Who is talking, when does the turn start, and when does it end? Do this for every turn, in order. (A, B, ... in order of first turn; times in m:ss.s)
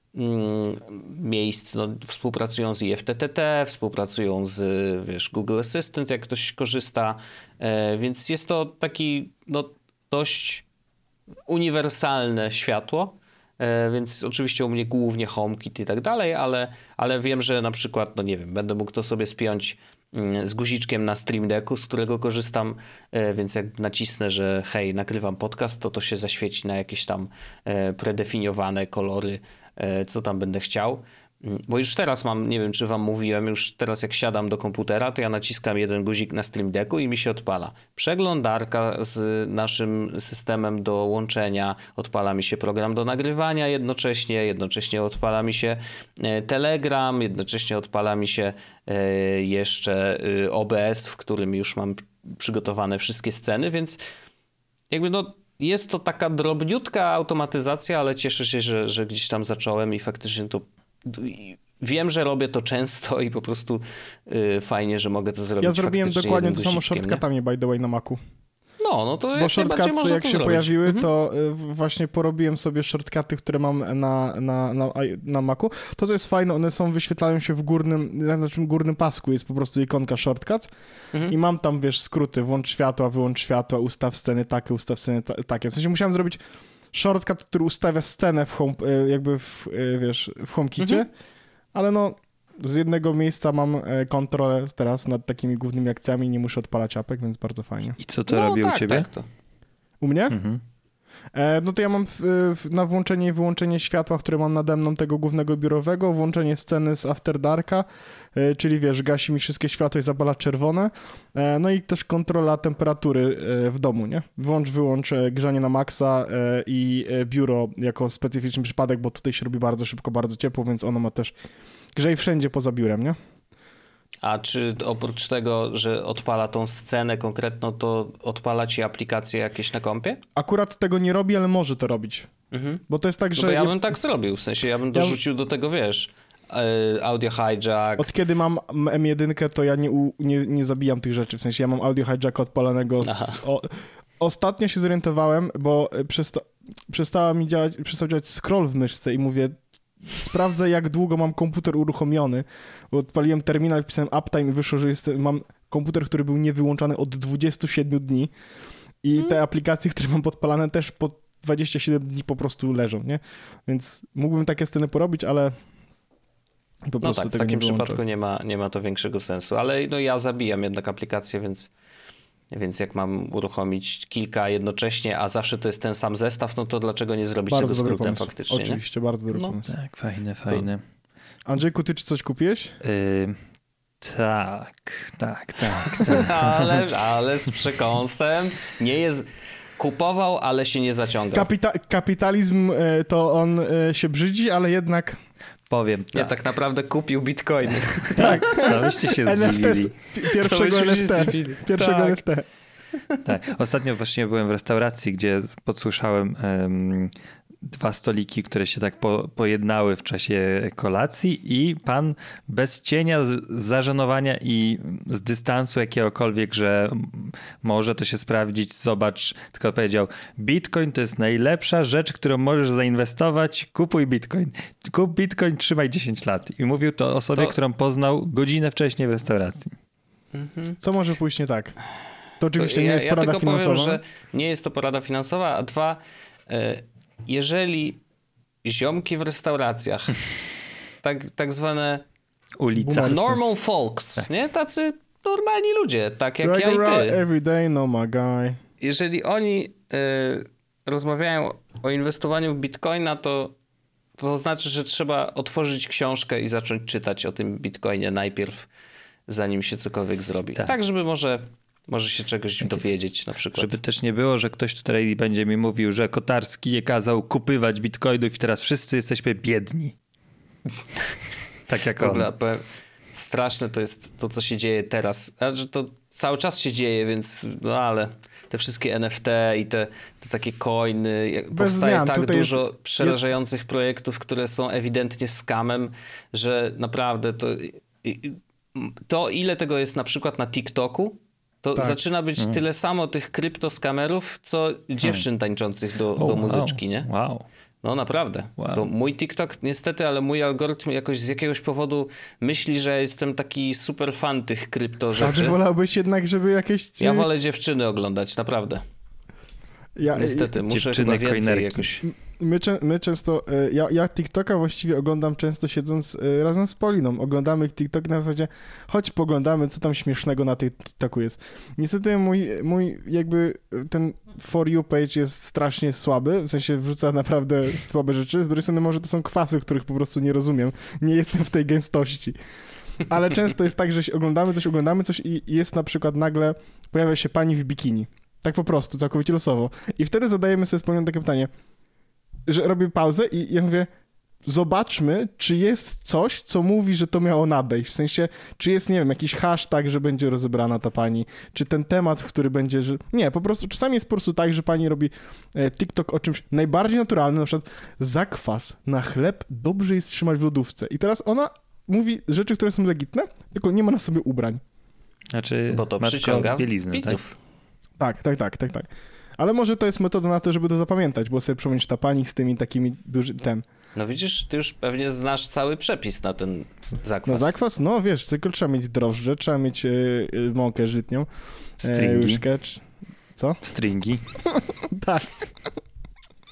0:00.1-0:10.7 A
0:11.5-0:54.0 A
0:54.9-1:07.2 A
1:05.6-1:08.2 B
1:08.8-1:11.1 A
1:09.4-1:20.7 B
1:21.3-1:26.4 B
1:26.9-1:31.1 B
1:30.8-1:31.0 A
1:31.7-1:38.0 B
1:38.0-1:39.1 C
1:38.3-1:39.3 A
1:40.0-1:40.4 B
1:40.3-1:40.6 C
1:41.3-2:01.3 B
2:02.0-2:03.2 B
2:04.2-2:10.2 A
2:10.4-2:12.3 B
2:12.5-2:12.8 A
2:12.9-2:13.8 B
2:13.4-2:18.1 A
2:18.0-2:38.3 B
2:23.0-2:23.4 A
2:39.0-2:45.5 B
2:46.9-2:48.0 B
2:47.0-2:51.7 A
2:52.5-2:58.8 A
2:57.5-2:59.7 B
2:59.7-3:00.8 C
3:01.5-3:02.8 B
3:02.8-3:03.4 C
3:04.0-3:06.8 C
3:06.1-3:09.3 A
3:09.8-3:11.5 A
3:11.3-3:15.2 B
3:15.7-3:16.4 C
3:16.1-3:18.7 A
3:18.0-3:20.0 C
3:18.2-3:22.4 B
3:20.3-3:22.1 A
3:21.8-3:22.0 C
3:23.2-3:27.1 C
3:27.6-3:49.8 C
3:50.3-3:50.8 A
3:50.8-3:51.8 B
3:52.4-3:54.0 B
3:52.6-3:58.0 A
3:58.6-4:00.2 A
4:01.0-4:02.0 A
4:02.6-4:03.4 C
4:02.8-4:03.2 B
4:03.0-4:07.2 A
4:06.4-4:08.6 B
4:08.8-4:13.6 A
4:14.2-4:18.7 A
4:19.3-4:23.8 A
4:22.6-4:22.9 C
4:23.5-4:29.9 C
4:31.7-4:32.3 C
4:32.0-4:57.1 A
4:41.5-4:43.2 B
4:56.2-4:57.5 C
4:57.8-5:05.6 A
4:58.6-4:58.9 C
5:05.2-5:07.3 B
5:07.0-5:08.8 A
5:10.0-5:10.5 B
5:10.1-5:12.1 A
5:10.6-5:11.8 C
5:12.1-5:32.4 B
5:33.0-5:41.5 B
5:42.5-5:43.9 B
5:44.4-6:04.6 B
6:05.3-6:07.2 C
6:05.7-6:07.4 A
6:08.0-6:13.6 B
6:14.0-6:17.6 A
6:17.3-6:21.3 B
6:21.8-6:22.8 B
6:21.9-6:22.4 C
6:23.6-6:24.2 C
6:24.6-6:25.5 B